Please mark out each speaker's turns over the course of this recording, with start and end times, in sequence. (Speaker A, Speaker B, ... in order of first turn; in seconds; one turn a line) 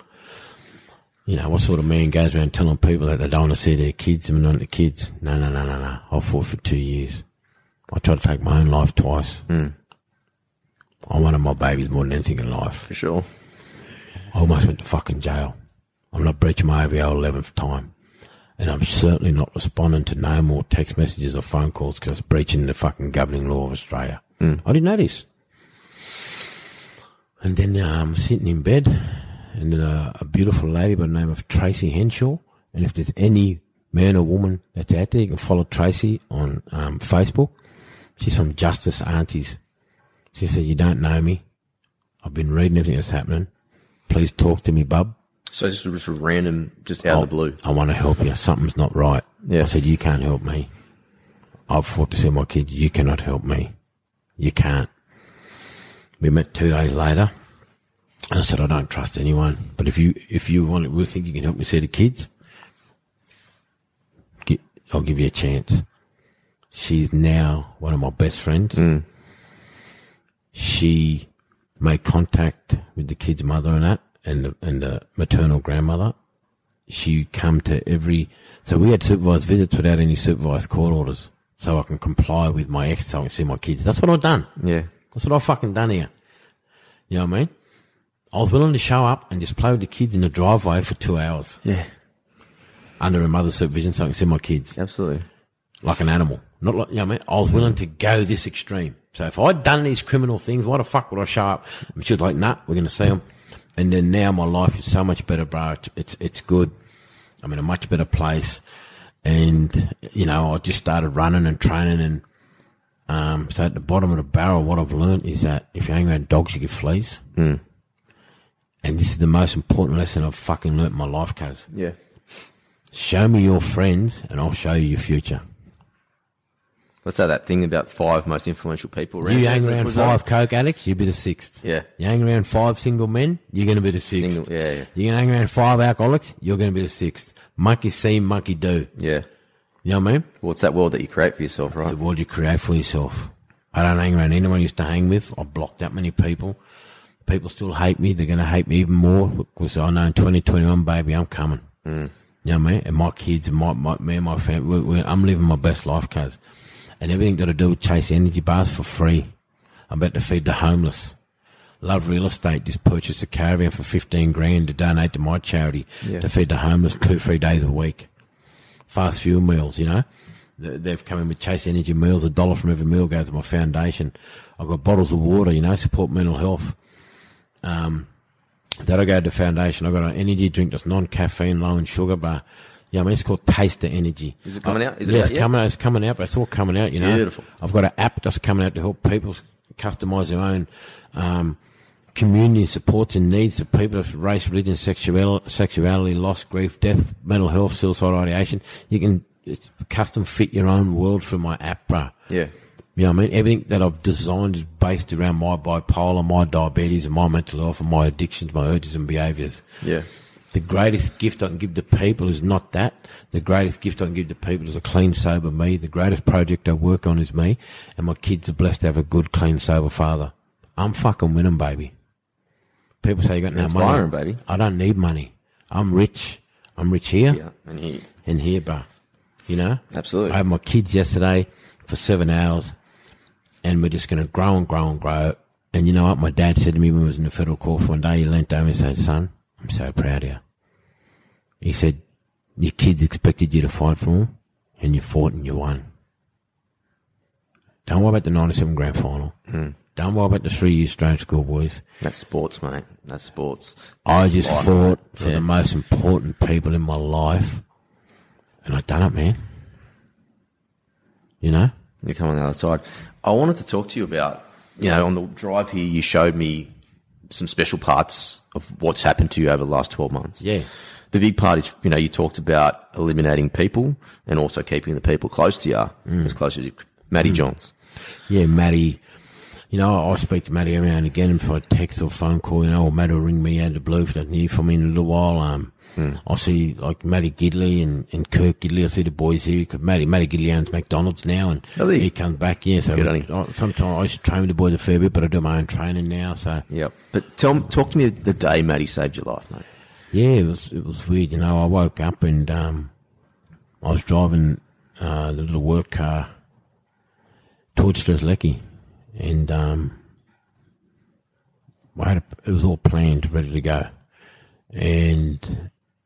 Speaker A: 1.3-7.2
Speaker A: 7.9-9.5
Speaker B: 9.5-9.7
Speaker A: 11.1-12.9
Speaker B: 12.9-13.3
Speaker A: 14.3-15.5
Speaker A: 16.1-17.9
Speaker A: 18.6-25.2
Speaker A: 27.4-37.5
Speaker A: 38.2-39.6
Speaker A: 40.3-41.4
Speaker A: 42.2-43.5
Speaker A: 44.1-45.1
Speaker B: 45.5-47.6
Speaker A: 47.0-50.7
Speaker B: 49.4-49.7
Speaker A: 51.7-53.7
Speaker A: 54.4-54.9
Speaker A: 56.2-57.3
Speaker A: 58.3-62.3
Speaker A: 64.4-65.8
Speaker A: 66.7-68.9
Speaker B: 68.8-69.0
Speaker A: 70.5-76.1
Speaker A: 76.9-84.5
Speaker B: 84.6-84.9
Speaker A: 85.1-86.1
Speaker A: 87.1-87.5
Speaker A: 88.3-91.6
Speaker A: 93.0-94.8
Speaker B: 94.8-95.2
Speaker A: 95.8-103.2
Speaker A: 103.8-106.7
Speaker A: 107.4-108.6
Speaker A: 109.2-112.2
Speaker A: 113.1-117.2
Speaker B: 117.3-117.6
Speaker A: 118.8-121.7
Speaker A: 122.9-125.4
Speaker B: 127.0-130.2
Speaker A: 129.2-138.9
Speaker B: 134.1-134.9
Speaker B: 139.0-139.2
Speaker A: 139.8-140.3
Speaker B: 140.4-141.9
Speaker A: 141.8-146.6
Speaker A: 147.2-151.7
Speaker B: 151.8-152.1
Speaker A: 152.4-156.4
Speaker A: 157.0-159.3
Speaker A: 159.9-161.2
Speaker A: 161.8-168.1
Speaker A: 168.9-170.0
Speaker A: 170.6-176.8
Speaker A: 177.6-178.1
Speaker A: 178.8-191.6
Speaker B: 184.4-185.5
Speaker B: 187.0-187.4
Speaker A: 192.1-202.1
Speaker A: 202.9-209.7
Speaker B: 209.8-210.1
Speaker A: 210.5-221.9
Speaker A: 223.0-227.4
Speaker B: 223.5-224.4
Speaker B: 227.3-228.1
Speaker A: 228.2-228.8
Speaker A: 229.5-232.7
Speaker B: 229.9-230.4
Speaker A: 233.6-240.4
Speaker A: 241.6-242.0
Speaker A: 242.6-245.8
Speaker A: 247.8-249.4
Speaker A: 249.9-251.8
Speaker B: 252.0-255.4
Speaker A: 254.0-257.6
Speaker A: 258.6-259.4
Speaker A: 261.4-261.7
Speaker B: 262.0-266.7
Speaker B: 267.3-270.4
Speaker A: 270.4-270.7
Speaker B: 271.1-277.7
Speaker A: 276.1-276.4
Speaker A: 278.3-279.0
Speaker A: 279.7-296.7
Speaker B: 291.8-292.1
Speaker B: 292.9-293.3
Speaker B: 296.7-299.6
Speaker A: 300.1-302.9
Speaker A: 303.8-306.3
Speaker A: 307.7-308.6
Speaker A: 309.1-310.0
Speaker A: 311.9-313.9
Speaker A: 314.7-315.7